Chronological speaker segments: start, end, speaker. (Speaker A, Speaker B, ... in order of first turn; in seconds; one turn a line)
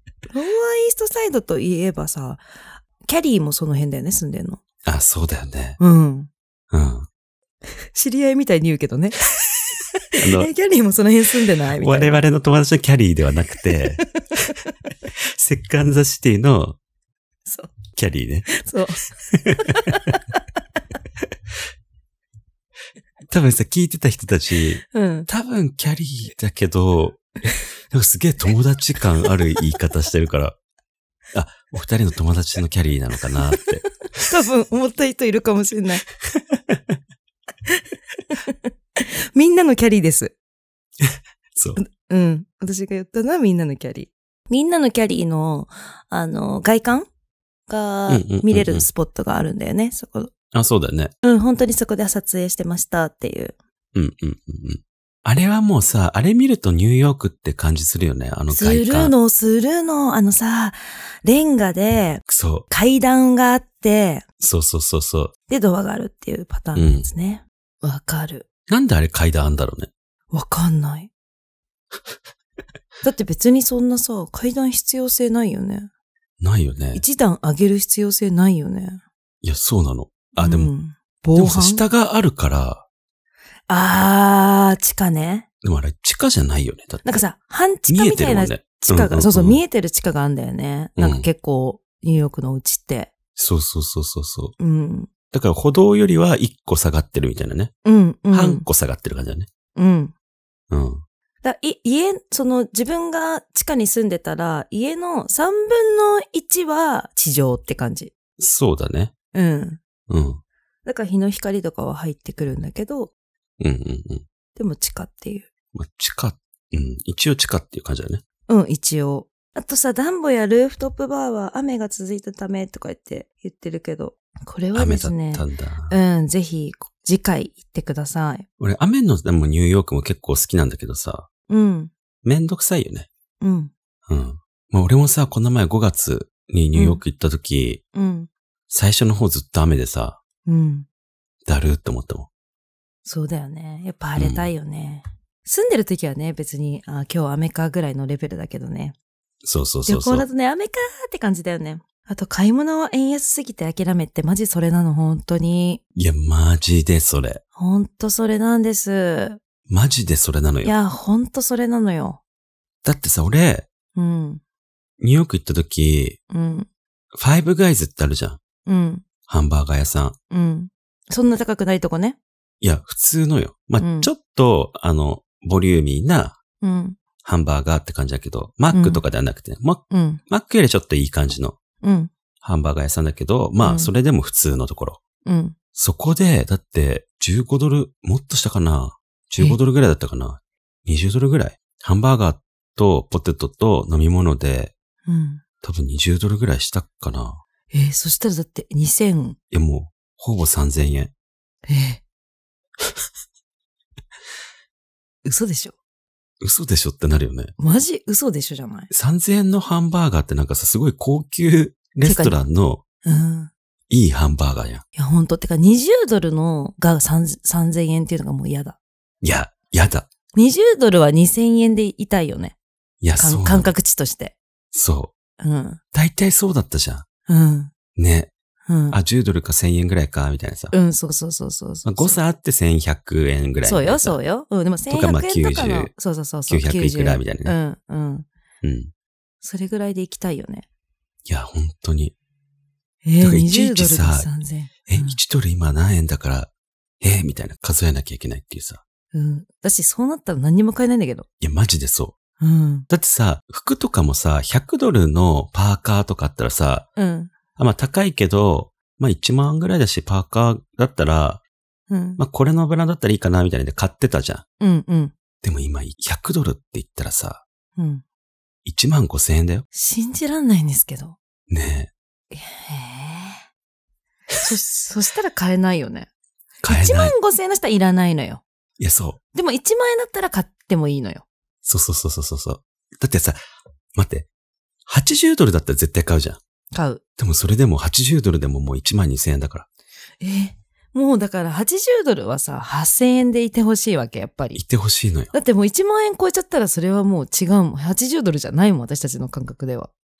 Speaker A: 0.3-4.6
Speaker B: 4.8-5.8
Speaker A: 5.8-6.3
Speaker B: 6.7-7.1
Speaker A: 7.9-9.2
Speaker A: 10.1-12.2
Speaker B: 10.2-10.5
Speaker B: 11.7-14.0
Speaker B: 15.2-16.8
Speaker A: 17.5-17.7
Speaker B: 17.9-18.6
Speaker A: 18.5-19.1
Speaker B: 19.3-19.9
Speaker A: 19.7-20.4
Speaker B: 23.3-30.6
Speaker A: 24.9-25.3
Speaker B: 31.3-33.8
Speaker A: 34.2-36.0
Speaker B: 36.3-37.0
Speaker A: 37.7-40.3
Speaker B: 41.0-41.8
Speaker A: 41.8-47.0
Speaker A: 47.7-50.3
Speaker B: 48.1-48.9
Speaker B: 50.5-51.1
Speaker A: 51.2-53.5
Speaker B: 53.9-59.1
Speaker A: 58.5-64.2
Speaker B: 62.3-62.6
Speaker B: 64.4-65.3
Speaker A: 65.5-68.4
Speaker B: 66.7-67.1
Speaker B: 68.7-69.9
Speaker A: 70.3-71.1
Speaker A: 73.0-75.9
Speaker B: 76.4-77.0
Speaker A: 76.9-79.0
Speaker B: 79.4-80.7
Speaker A: 80.4-81.8
Speaker B: 81.3-82.8
Speaker A: 83.7-85.5
Speaker B: 85.6-87.2
Speaker A: 87.0-93.1
Speaker B: 87.9-89.6
Speaker B: 91.0-91.3
Speaker B: 93.3-94.5
Speaker A: 94.6-95.1
Speaker B: 95.3-97.7
Speaker A: 97.8-98.7
Speaker B: 98.3-99.5
Speaker A: 99.8-100.1
Speaker B: 100.7-101.0
Speaker A: 101.4-108.1
Speaker B: 108.4-109.1
Speaker A: 109.3-109.8
Speaker B: 110.1-110.4
Speaker A: 110.8-113.1
Speaker B: 113.6-114.2
Speaker A: 114.5-115.5
Speaker B: 115.7-118.2
Speaker A: 118.5-128.4
Speaker B: 124.7-126.0
Speaker B: 128.6-131.3
Speaker A: 131.5-131.9
Speaker B: 132.2-133.1
Speaker A: 133.4-133.7
Speaker B: 134.1-137.8
Speaker A: 136.7-137.0
Speaker A: 137.9-138.3
Speaker B: 138.7-140.2
Speaker A: 140.4-140.9
Speaker B: 141.5-142.3
Speaker A: 143.0-148.9
Speaker B: 144.2-144.5
Speaker B: 149.4-150.2
Speaker A: 149.8-155.8
Speaker B: 155.9-157.4
Speaker A: 157.6-159.4
Speaker B: 159.7-160.7
Speaker A: 160.6-162.2
Speaker B: 162.8-163.7
Speaker A: 163.9-164.4
Speaker B: 165.0-166.2
Speaker A: 166.3-166.7
Speaker B: 167.1-168.4
Speaker A: 168.7-169.0
Speaker B: 169.3-170.2
Speaker A: 170.3-172.2
Speaker B: 172.6-176.4
Speaker A: 173.8-174.1
Speaker A: 176.6-177.0
Speaker B: 177.2-181.6
Speaker A: 178.7-179.0
Speaker A: 179.9-180.2
Speaker A: 181.8-182.1
Speaker B: 182.4-185.0
Speaker A: 183.6-183.9
Speaker A: 185.2-185.5
Speaker B: 185.8-194.7
Speaker A: 195.1-195.4
Speaker B: 195.6-197.4
Speaker A: 197.7-199.4
Speaker B: 199.5-201.1
Speaker A: 201.7-202.0
Speaker A: 205.2-205.7
Speaker B: 206.4-207.5
Speaker A: 207.6-208.9
Speaker B: 208.9-212.8
Speaker A: 212.0-212.4
Speaker A: 213.0-213.5
Speaker B: 213.9-214.8
Speaker A: 214.9-218.8
Speaker B: 219.2-220.1
Speaker A: 220.3-222.6
Speaker B: 223.0-223.7
Speaker A: 223.2-224.3
Speaker B: 224.7-225.1
Speaker A: 225.4-225.8
Speaker B: 225.9-227.1
Speaker A: 227.3-227.7
Speaker B: 227.9-228.3
Speaker A: 228.7-229.0
Speaker B: 228.9-230.7
Speaker A: 230.7-232.2
Speaker B: 231.8-234.2
Speaker A: 233.6-238.3
Speaker B: 234.9-235.9
Speaker B: 236.5-237.5
Speaker B: 238.6-238.9
Speaker A: 239.4-240.7
Speaker B: 241.2-242.1
Speaker A: 243.0-245.2
Speaker B: 243.2-244.3
Speaker B: 244.9-248.8
Speaker A: 249.1-251.2
Speaker B: 251.4-252.2
Speaker A: 252.4-252.9
Speaker B: 252.9-256.9
Speaker A: 257.0-257.3
Speaker B: 257.6-261.4
Speaker A: 261.9-262.2
Speaker B: 262.2-264.4
Speaker A: 264.6-265.1
Speaker B: 265.4-267.4
Speaker A: 267.8-268.0
Speaker B: 268.6-269.6
Speaker A: 269.7-271.2
Speaker B: 271.5-271.9
Speaker A: 272.3-273.4
Speaker A: 274.4-276.1
Speaker B: 276.6-277.1
Speaker A: 276.6-278.4
Speaker B: 278.8-279.2
Speaker A: 279.3-281.2
Speaker B: 281.6-283.4
Speaker B: 283.9-284.3
Speaker B: 284.9-286.4
Speaker A: 286.7-287.0
Speaker B: 287.2-289.6
Speaker A: 290.2-294.6
Speaker B: 294.5-295.3
Speaker A: 295.3-299.9